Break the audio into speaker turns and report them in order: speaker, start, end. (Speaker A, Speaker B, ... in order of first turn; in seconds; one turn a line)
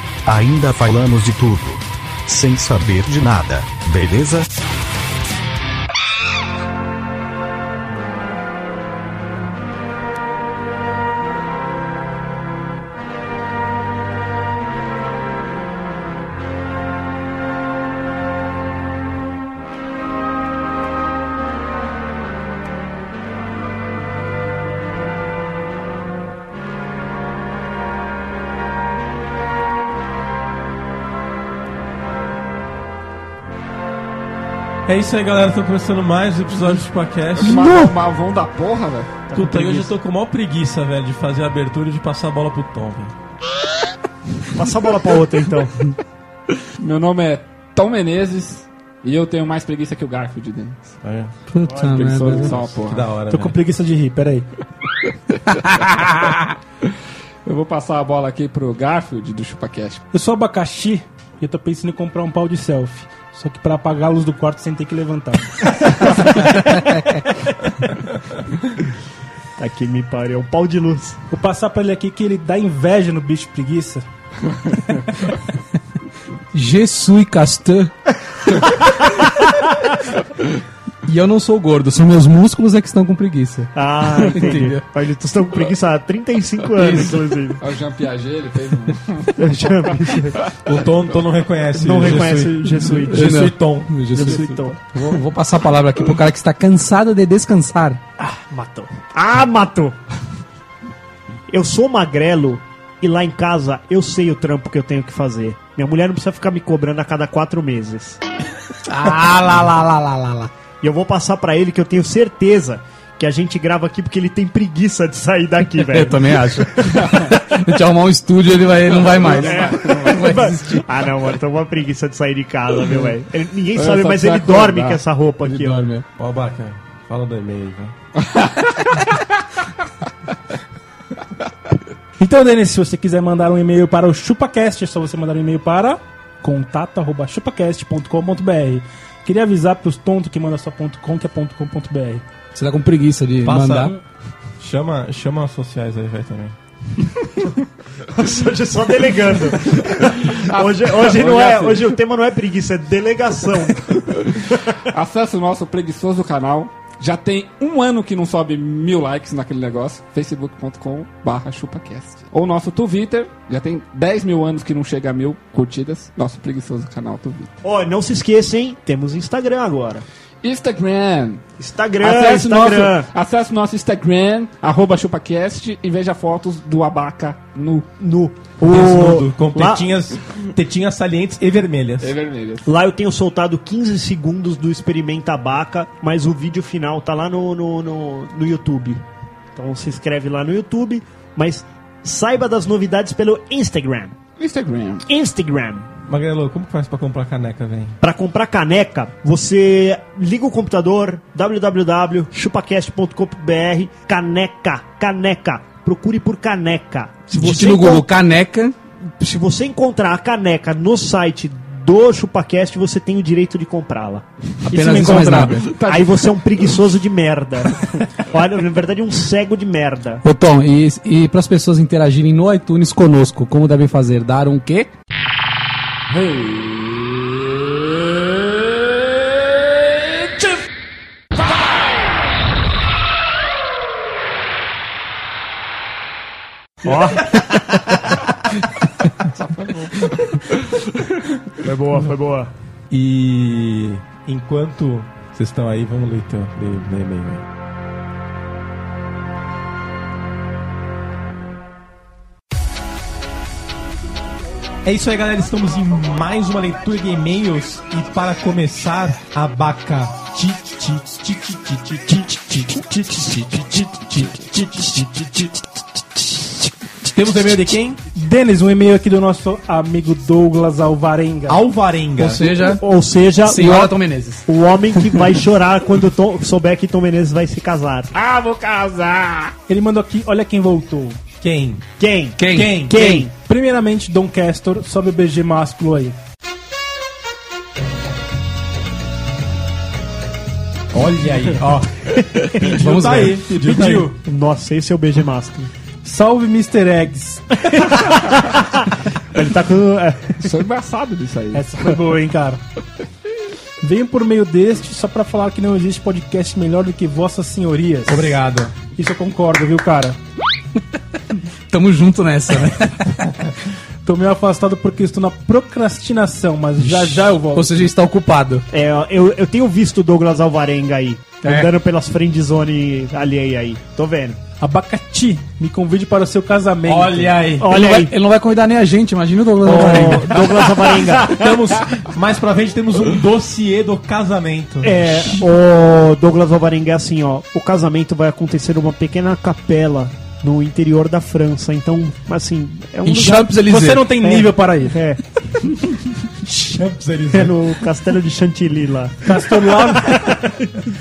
Speaker A: 0.3-4.5
Speaker B: 34.9-37.7
Speaker C: 37.4-39.2
Speaker D: 39.3-39.9
Speaker B: 39.3-43.1
Speaker D: 44.5-45.9
Speaker C: 46.8-51.0
Speaker B: 51.0-51.4
Speaker E: 51.5-52.5
Speaker D: 51.6-52.5
Speaker C: 52.2-53.1
Speaker B: 52.9-53.6
Speaker F: 53.3-54.5
Speaker C: 57.5-60.0
Speaker F: 60.1-66.8
Speaker D: 69.6-71.2
Speaker F: 71.3-74.0
Speaker E: 76.5-77.9
Speaker E: 81.0-84.8
Speaker D: 83.8-87.6
Speaker E: 86.8-87.2
Speaker C: 87.6-89.4
Speaker D: 89.4-90.4
Speaker B: 90.7-94.0
Speaker D: 91.8-93.3
Speaker E: 92.9-98.0
Speaker D: 94.1-94.8
Speaker D: 98.2-100.0
Speaker D: 101.5-108.2
Speaker E: 108.9-110.5
Speaker D: 110.8-117.2
Speaker E: 115.8-120.9
Speaker C: 118.8-120.5
Speaker D: 119.3-125.9
Speaker C: 123.8-125.0
Speaker E: 125.5-126.0
Speaker B: 126.2-127.9
Speaker C: 128.2-129.1
Speaker F: 132.2-142.2
Speaker E: 142.5-144.0
Speaker B: 143.4-143.9
Speaker B: 144.6-146.6
Speaker D: 148.1-154.8
Speaker C: 150.3-152.0
Speaker C: 154.8-167.5
Speaker D: 167.6-170.1
Speaker C: 170.4-171.4
Speaker D: 171.6-173.1
Speaker C: 172.0-177.9
Speaker D: 178.0-179.9
Speaker B: 178.6-182.1
Speaker C: 182.0-182.7
Speaker D: 182.7-189.0
Speaker D: 189.6-194.2
Speaker C: 194.4-195.0
Speaker D: 195.1-195.9
Speaker B: 196.1-198.0
Speaker D: 198.0-208.1
Speaker E: 207.3-208.7
Speaker D: 209.2-220.2
Speaker E: 214.7-215.8
Speaker F: 214.7-215.7
Speaker C: 215.6-216.3
Speaker E: 220.2-224.9
Speaker C: 226.2-226.7
Speaker D: 236.8-238.2
Speaker C: 239.2-240.8
Speaker D: 241.6-242.5
Speaker B: 242.9-247.4
Speaker B: 254.8-265.5
Speaker B: 267.0-268.0
Speaker F: 268.1-271.6
Speaker B: 271.5-272.5
Speaker E: 272.2-272.8
Speaker D: 272.7-278.1
Speaker E: 273.4-274.4
Speaker C: 278.1-279.6
Speaker F: 279.7-281.2
Speaker B: 281.4-281.8
Speaker D: 282.0-283.3
Speaker E: 282.4-282.9
Speaker B: 282.5-283.0
Speaker F: 283.3-286.2
Speaker B: 290.9-294.1
Speaker D: 292.2-292.8
Speaker E: 292.7-293.4
Speaker D: 293.5-295.7
Speaker F: 296.0-297.6
Speaker D: 297.7-300.5
Speaker C: 300.4-301.7
Speaker F: 301.5-302.6
Speaker F: 303.8-308.4
Speaker B: 308.1-308.8
Speaker F: 308.9-310.2
Speaker E: 311.7-313.3
Speaker F: 314.1-317.9
Speaker E: 316.8-318.6
Speaker D: 318.7-324.4
Speaker B: 321.4-321.7
Speaker F: 324.6-327.5
Speaker B: 326.9-327.7
Speaker D: 327.6-328.1
Speaker E: 327.6-330.5
Speaker D: 329.6-331.4
Speaker B: 329.9-335.4
Speaker D: 334.8-343.6
Speaker E: 343.1-344.1
Speaker F: 343.3-345.0
Speaker D: 344.2-345.2
Speaker B: 346.4-347.7
Speaker D: 347.3-350.8
Speaker F: 349.2-350.4